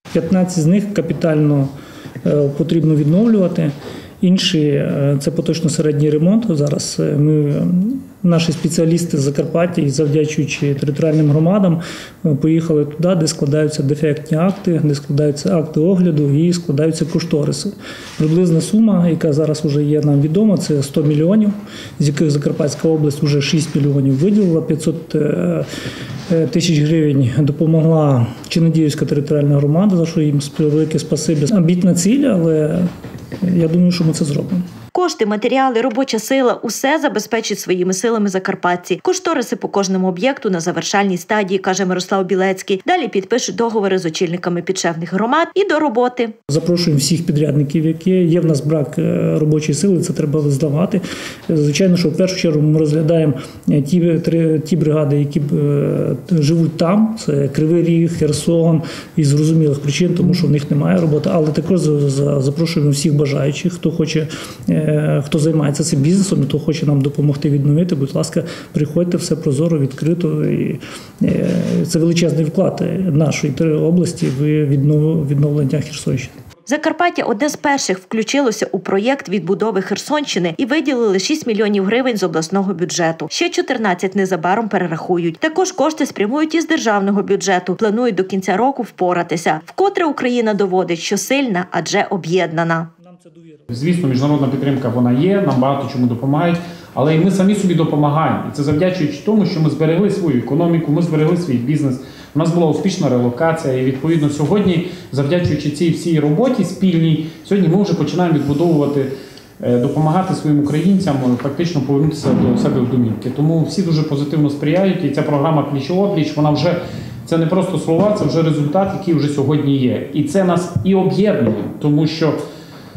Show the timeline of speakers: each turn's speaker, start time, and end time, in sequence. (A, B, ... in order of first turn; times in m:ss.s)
0:00.1-0:01.7 A
0:02.2-0:25.7 A
0:26.3-0:32.9 A
0:33.4-0:34.6 A
0:34.9-0:46.3 B
0:46.5-1:16.3 A
1:16.7-1:32.9 B
1:33.0-1:33.6 A
1:33.7-1:49.1 C
1:49.6-2:02.4 C